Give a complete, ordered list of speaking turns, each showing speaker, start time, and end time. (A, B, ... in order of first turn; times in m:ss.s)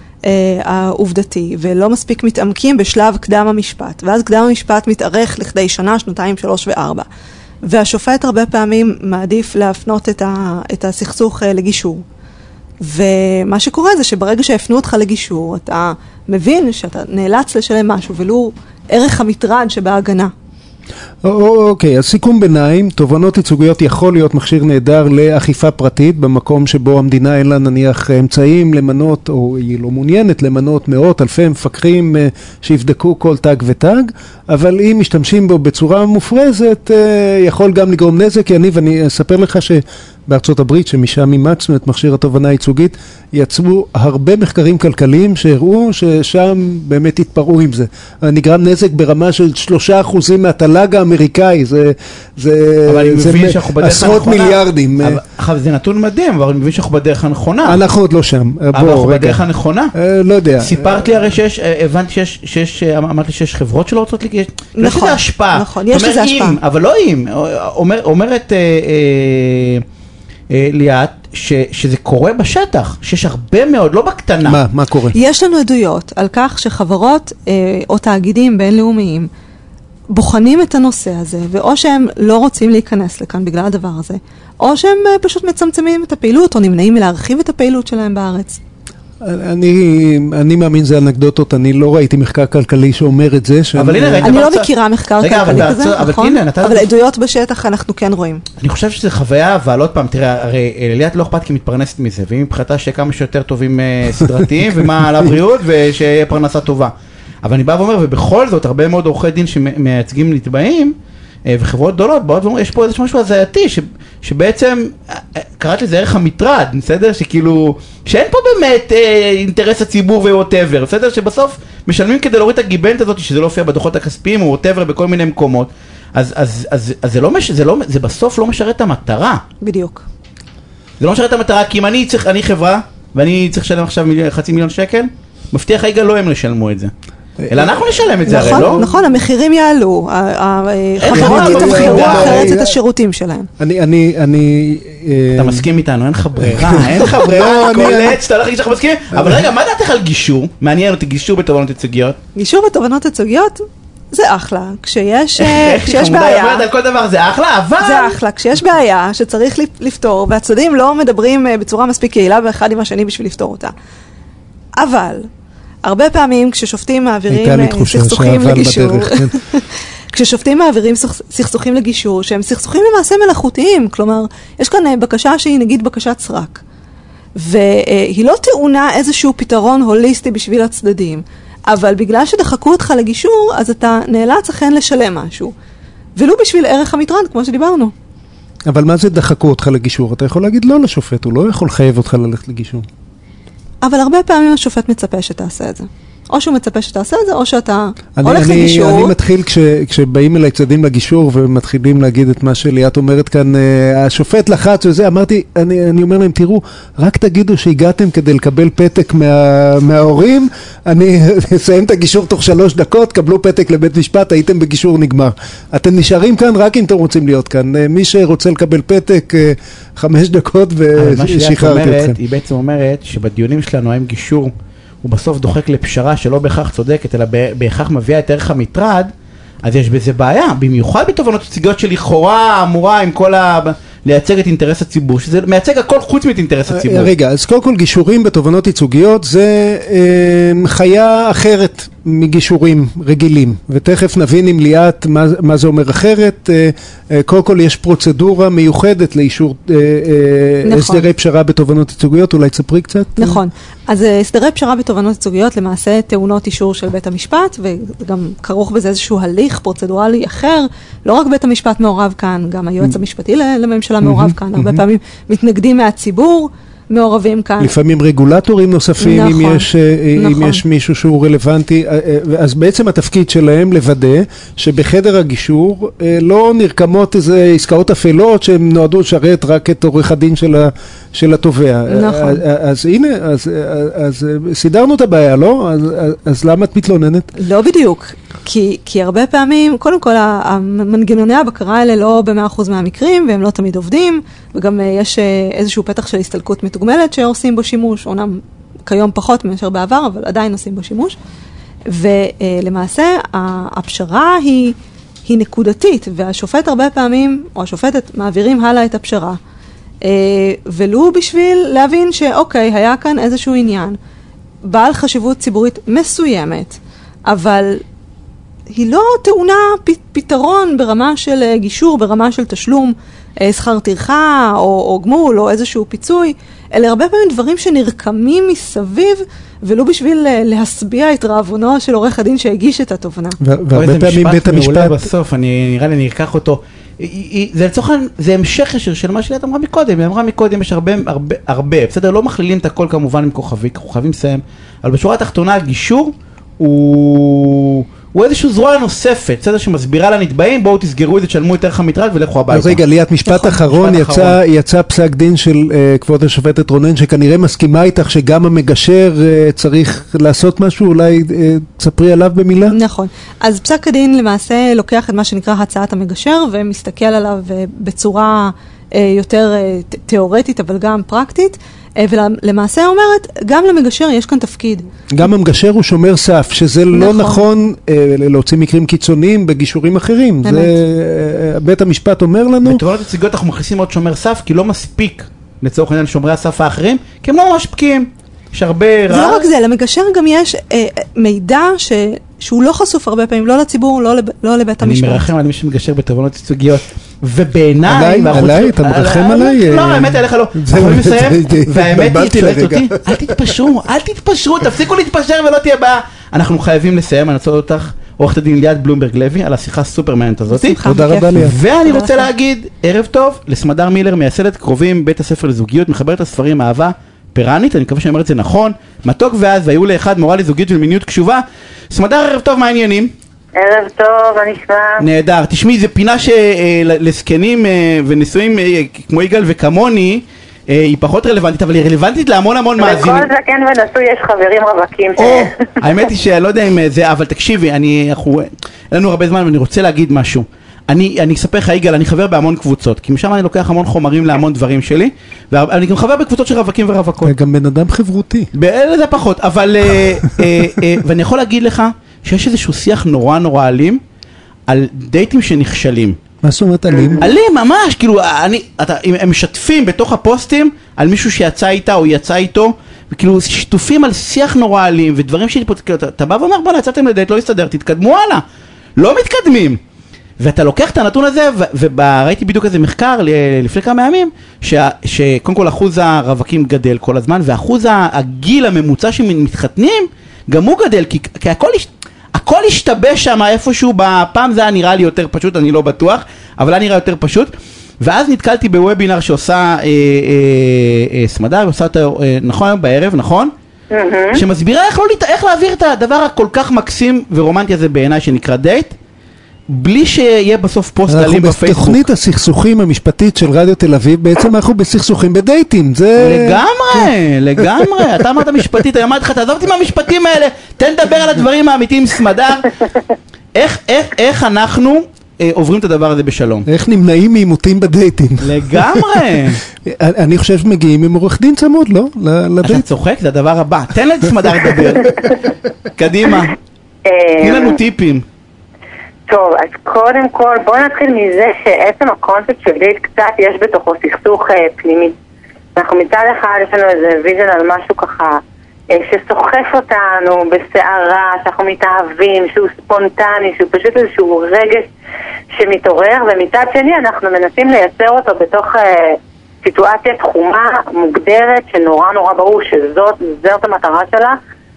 0:00.2-0:07.1 A
0:07.6-0:12.0 A
0:12.8-0:20.3 A
0:21.2-0:55.2 B
0:52.9-0:57.8 C
0:57.6-0:59.4 B
0:58.7-0:59.9 C
0:59.9-1:01.0 B
1:00.6-1:09.8 C
1:04.8-1:06.6 A
1:10.5-1:14.6 C
1:14.4-1:15.2 B
1:15.1-1:19.3 A
1:20.1-1:28.6 A
1:29.2-1:34.4 B
1:33.8-1:36.9 C
1:34.2-1:38.4 A
1:38.6-1:51.0 C
1:44.2-1:45.4 B
1:51.5-2:09.4 C
2:09.6-2:10.0 A
2:11.0-2:16.9 C
2:17.4-2:19.0 B
2:17.5-2:18.8 C
2:18.3-2:23.5 A
2:21.0-2:22.5 C
2:21.1-2:22.8 B
2:23.6-2:25.7 B
2:25.4-2:32.2 C
2:26.4-2:28.2 B
2:29.1-2:29.5 B
2:32.4-2:36.7 A
2:35.4-2:38.2 C
2:37.8-2:43.7 A
2:44.8-2:45.3 A
2:45.8-2:56.6 A
2:47.3-2:49.4 B
2:57.4-3:05.5 A
3:06.2-3:07.9 A
3:08.7-3:12.9 B
3:13.8-3:19.1 A
3:18.2-3:42.2 B
3:41.0-3:44.5 C
3:45.0-3:49.1 C
3:49.6-3:57.1 C
3:56.7-4:13.4 B
4:10.7-4:11.0 A
4:13.2-4:27.7 A
4:24.0-4:24.8 B
4:27.6-4:47.3 B
4:29.0-4:30.6 A
4:41.9-4:42.4 A
4:47.4-5:01.2 A
5:01.9-5:09.4 A
5:10.0-5:14.0 A
5:14.6-5:17.8 A
5:18.7-5:33.4 A
5:33.4-5:35.1 B
5:33.7-5:54.4 C
5:52.5-6:02.8 B
6:02.7-6:14.9 A
6:15.1-6:22.8 B
6:16.9-6:17.4 A
6:20.4-6:20.8 A
6:22.6-6:29.5 C
6:29.1-6:35.3 A
6:34.8-6:50.8 C
6:37.8-6:43.5 B
6:50.5-6:52.3 A
6:50.8-6:51.6 B
6:51.3-7:03.1 C
7:03.6-7:05.0 D
7:05.0-7:13.3 C
7:12.8-7:15.7 D
7:15.2-7:27.4 C
7:27.2-7:28.5 B
7:28.5-7:34.0 C
7:34.7-7:36.2 C
7:36.4-7:37.2 B
7:36.9-7:37.2 D
7:37.2-7:48.4 C
7:49.0-7:49.8 C
7:50.4-8:13.5 C
8:13.9-8:14.4 D
8:14.3-8:18.9 C
8:19.7-8:22.1 C
8:21.1-8:28.1 B
8:26.2-8:32.7 C
8:33.6-8:36.7 C
8:36.7-8:39.2 B
8:38.4-8:39.6 C
8:39.8-8:42.8 B
8:42.6-8:45.4 C
8:46.0-8:46.6 C
8:47.1-8:47.8 D
8:47.4-8:48.2 C
8:49.3-8:55.2 D
8:55.8-8:58.4 D
8:58.9-9:04.9 D
9:05.6-9:14.4 D